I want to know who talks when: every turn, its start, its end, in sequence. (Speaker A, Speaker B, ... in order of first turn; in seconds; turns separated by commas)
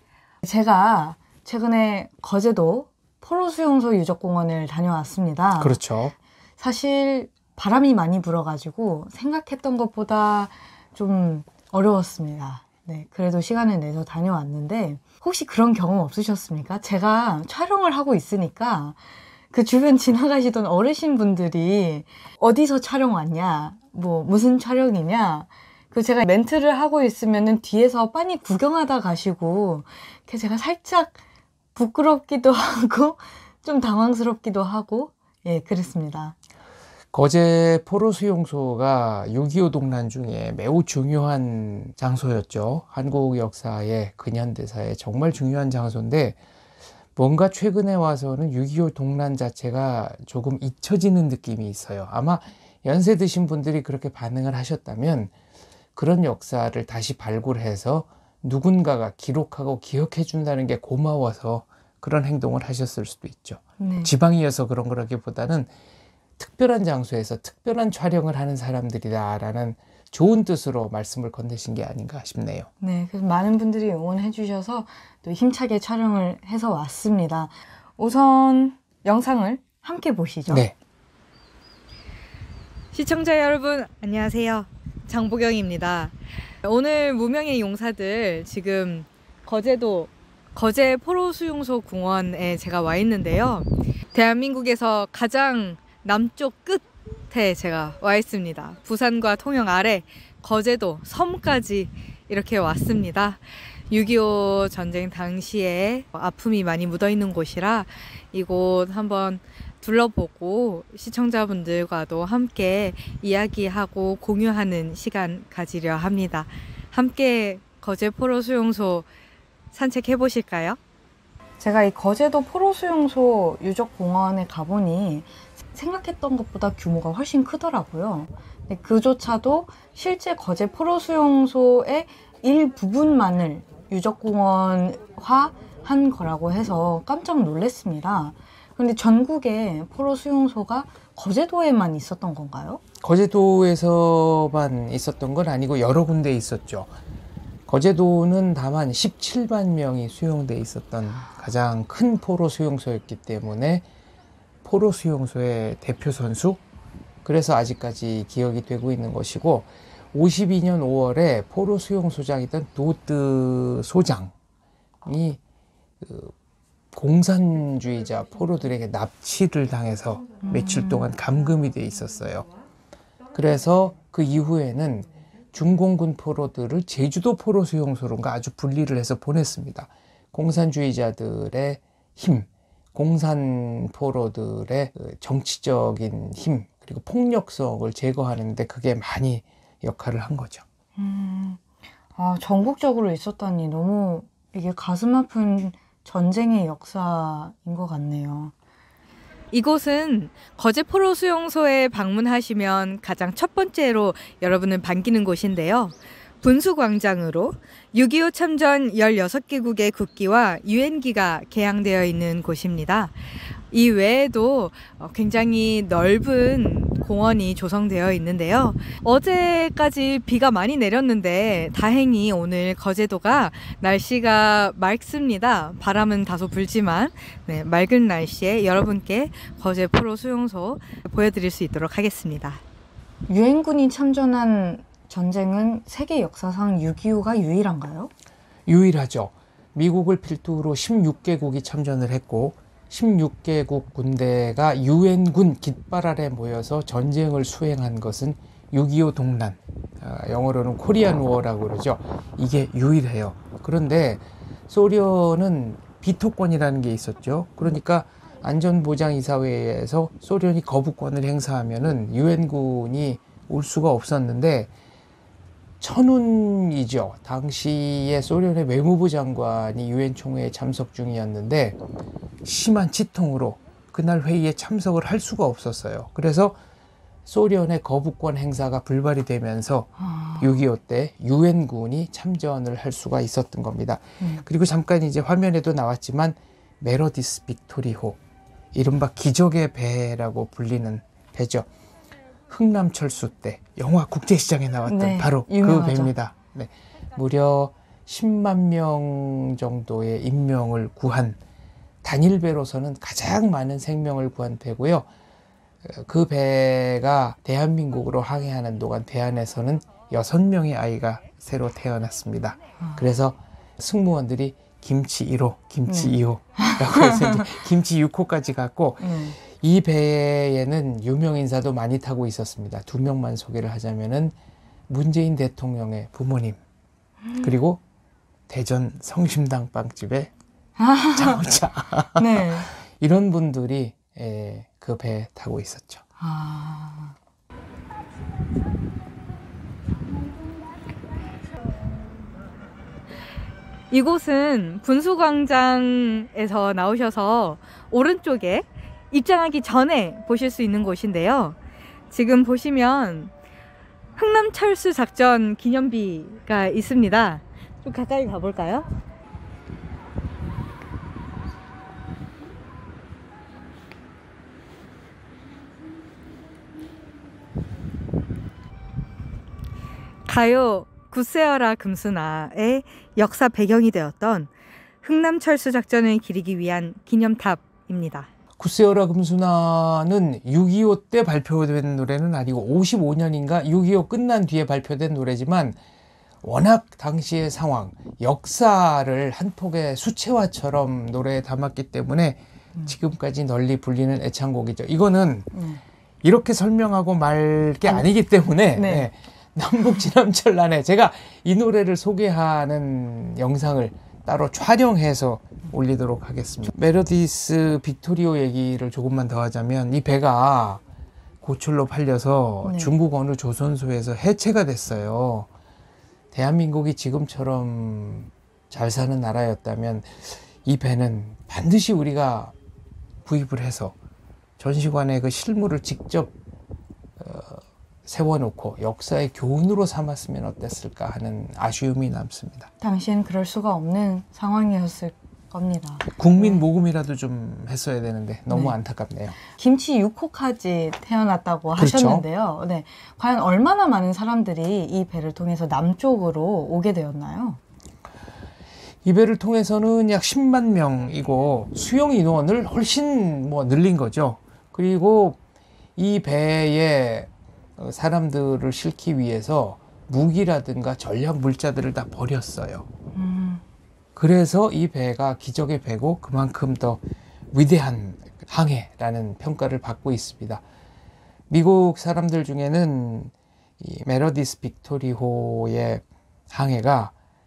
Speaker A: 0.4-5.8, Speaker B: 5.6-6.2, Speaker A: 6.6-19.0, Speaker A: 19.5-31.2, Speaker A: 31.8-36.4, Speaker B: 37.1-46.4, Speaker B: 47.2-55.3, Speaker B: 56.0-65.7, Speaker A: 63.8-64.1, Speaker B: 66.4-72.7, Speaker A: 72.8-80.7, Speaker B: 80.5-80.8, Speaker C: 82.9-119.1, Speaker C: 119.7-120.8, Speaker A: 121.6-142.8, Speaker B: 143.0-146.9, Speaker B: 147.7-153.9, Speaker B: 154.6-156.6, Speaker B: 157.2-164.3, Speaker B: 165.0-165.4, Speaker B: 166.0-166.3, Speaker B: 166.9-172.5, Speaker A: 170.4-171.1, Speaker B: 173.3-190.6, Speaker A: 191.0-191.6, Speaker A: 192.2-198.5, Speaker C: 199.5-232.6, Speaker A: 233.3-238.1, Speaker B: 238.7-264.7, Speaker B: 265.8-271.8, Speaker B: 272.4-276.6, Speaker B: 277.3-288.2, Speaker A: 280.0-280.6, Speaker B: 288.7-291.7, Speaker B: 292.5-301.4, Speaker A: 294.9-296.1, Speaker B: 302.0-305.1, Speaker B: 305.8-324.4, Speaker A: 315.9-317.4, Speaker A: 319.0-319.4, Speaker B: 324.9-326.6, Speaker B: 327.4-327.8, Speaker B: 328.5-330.3, Speaker A: 330.8-331.4, Speaker B: 331.1-336.0, Speaker A: 332.2-332.7, Speaker A: 336.2-337.1, Speaker C: 343.9-351.6, Speaker C: 352.1-353.3, Speaker C: 354.2-358.9, Speaker C: 370.3-374.5, Speaker C: 375.0-378.3, Speaker B: 378.6-385.8, Speaker B: 386.4-395.5, Speaker A: 395.5-395.8, Speaker B: 396.2-410.8, Speaker A: 398.8-399.1, Speaker B: 411.4-415.5, Speaker A: 412.6-412.9, Speaker B: 416.3-422.5, Speaker B: 423.2-424.0, Speaker B: 424.6-426.3, Speaker B: 427.2-432.7, Speaker A: 432.8-436.6, Speaker B: 436.1-439.4, Speaker A: 439.4-447.6, Speaker B: 441.8-442.2, Speaker B: 449.0-455.4, Speaker B: 456.0-462.9, Speaker A: 463.1-463.6, Speaker B: 464.2-470.6, Speaker B: 471.5-477.1